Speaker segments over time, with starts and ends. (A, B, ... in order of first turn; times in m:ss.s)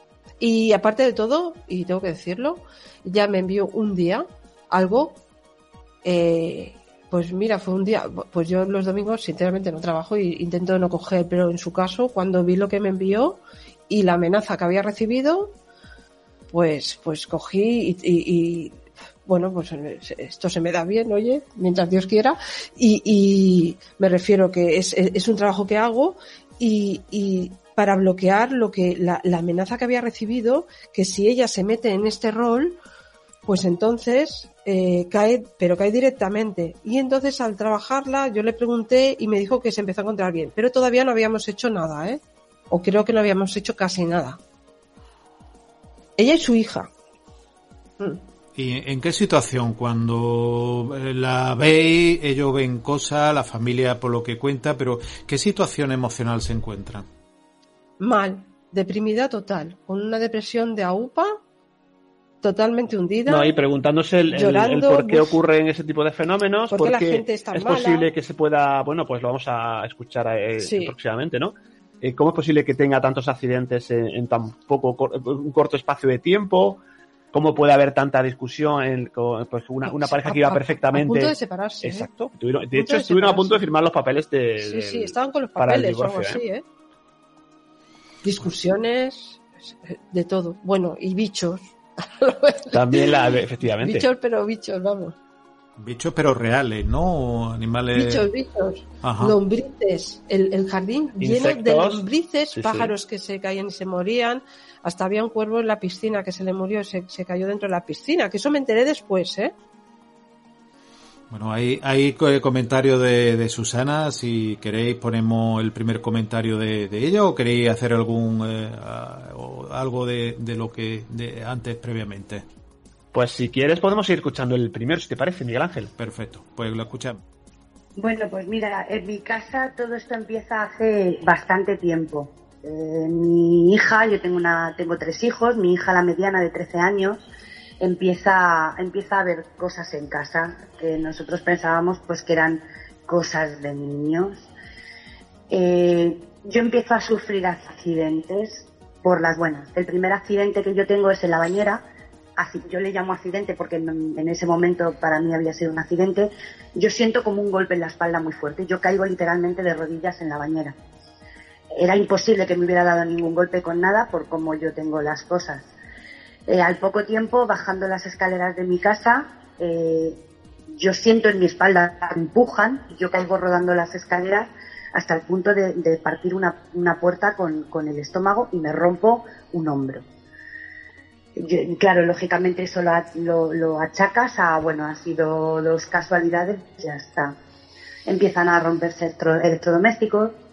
0:00.4-0:05.2 A
0:06.0-0:15.5 A
0:16.5-0:32.8 A
0:33.5-0:44.4 A
0:46.2-0:46.9 A
0:48.6-0:57.1 B
0:58.0-1:01.4 A
1:02.4-1:03.5 A
1:03.3-1:16.8 C
1:04.3-1:05.3 A
1:06.7-1:08.1 A
1:10.6-1:10.9 A
1:17.3-1:26.4 C
1:19.8-1:22.1 A
1:22.7-1:23.6 A
1:24.6-1:26.6 A
1:28.2-1:33.1 A
1:32.7-1:34.1 C
1:33.8-1:35.2 A
1:35.8-1:38.3 B
1:37.9-1:49.5 A
1:39.0-1:39.4 B
1:41.2-1:42.9 C
1:51.3-2:02.4 B
2:03.1-2:05.9 C
2:06.0-2:07.2 B
2:08.0-2:17.2 D
2:17.8-2:24.5 D
2:25.5-2:31.8 D
2:32.4-2:40.8 D
2:41.8-2:45.7 D
2:46.5-2:50.2 D
2:50.8-3:00.0 D
3:01.4-3:07.4 D
3:08.1-3:10.4 D